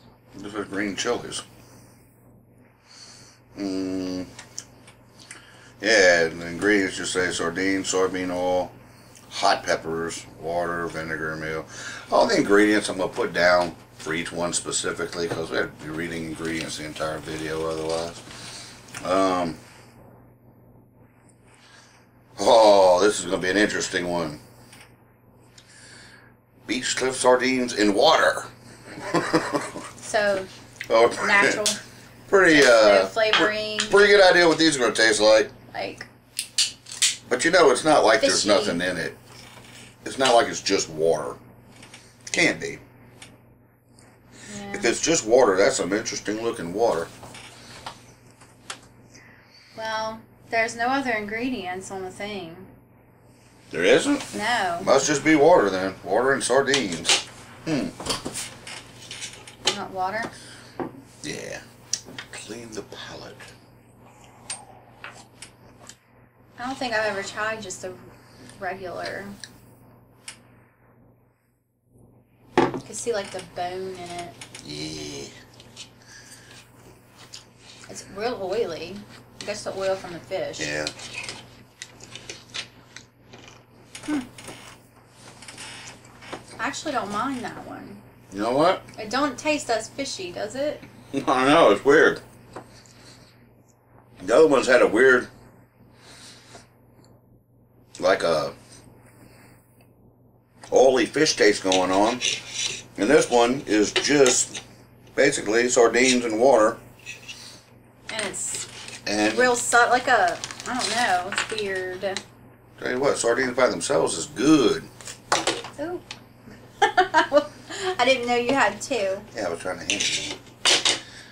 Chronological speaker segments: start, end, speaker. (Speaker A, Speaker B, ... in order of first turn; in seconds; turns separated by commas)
Speaker A: 0.3-1.4, Speaker A: 3.5-4.3, Speaker A: 5.8-8.7, Speaker A: 9.3-19.6, Speaker A: 22.4-24.4, Speaker A: 26.6-29.9, Speaker B: 30.0-30.5, Speaker A: 30.9-31.7, Speaker B: 31.2-31.8, Speaker A: 32.3-35.5, Speaker B: 32.4-34.2, Speaker B: 35.7-36.1, Speaker A: 37.3-39.2, Speaker B: 38.2-38.8, Speaker A: 40.0-41.4, Speaker A: 42.3-42.8, Speaker B: 44.5-44.9, Speaker A: 44.7-47.1, Speaker B: 49.7-52.7, Speaker A: 53.7-58.0, Speaker B: 54.3-55.0, Speaker B: 59.6-60.3, Speaker A: 61.2-61.6, Speaker A: 62.3-63.5, Speaker B: 66.6-69.3, Speaker B: 72.8-74.3, Speaker A: 74.6-75.3, Speaker B: 77.9-80.7, Speaker A: 80.6-80.9, Speaker B: 86.6-88.0, Speaker A: 88.3-88.9, Speaker B: 89.0-90.8, Speaker A: 91.1-92.2, Speaker A: 94.2-95.3, Speaker A: 98.0-98.5, Speaker A: 100.7-102.4, Speaker A: 103.0-104.5, Speaker A: 105.1-106.8, Speaker B: 108.1-108.7, Speaker A: 109.0-109.5, Speaker B: 109.2-112.2, Speaker A: 112.8-114.9, Speaker B: 115.8-116.0, Speaker B: 116.8-119.3, Speaker A: 119.3-120.4